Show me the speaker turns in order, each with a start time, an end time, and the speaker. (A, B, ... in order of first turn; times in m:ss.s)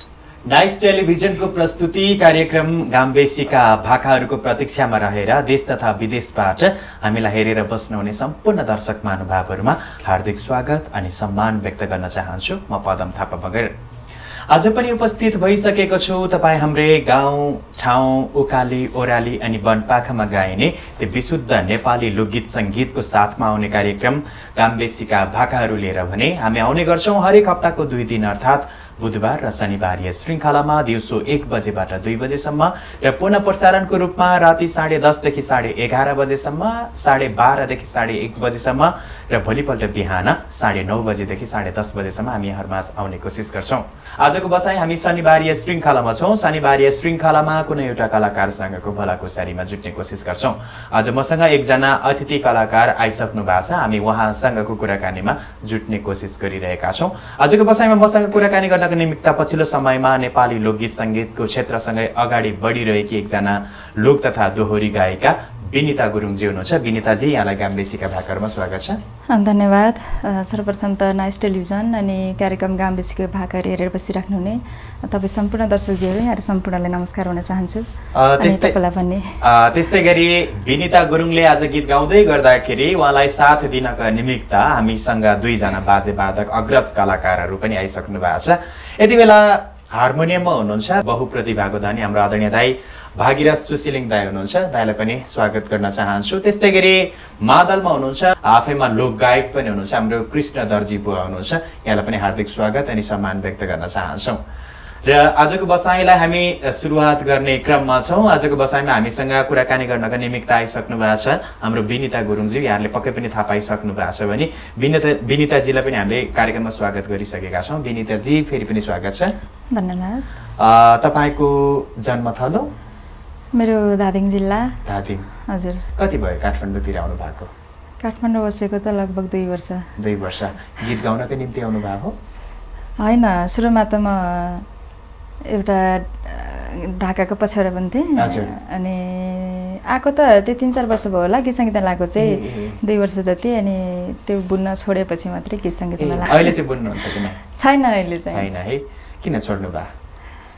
0:00.5-0:13.7 A
0:14.5-1:09.0 A
1:09.3-1:19.4 B
1:18.1-1:18.8 A
1:19.4-1:44.4 A
1:45.0-1:59.3 A
1:59.7-2:00.2 B
2:00.6-2:02.7 A
2:03.6-2:04.8 B
2:04.8-2:05.3 A
2:05.5-2:05.8 B
2:06.0-2:07.5 A
2:08.0-2:09.9 B
2:10.0-2:12.1 A
2:13.0-2:14.6 B
2:15.5-2:28.5 B
2:18.2-2:18.5 A
2:22.2-2:22.8 A
2:26.0-2:27.4 A
2:28.3-2:29.9 A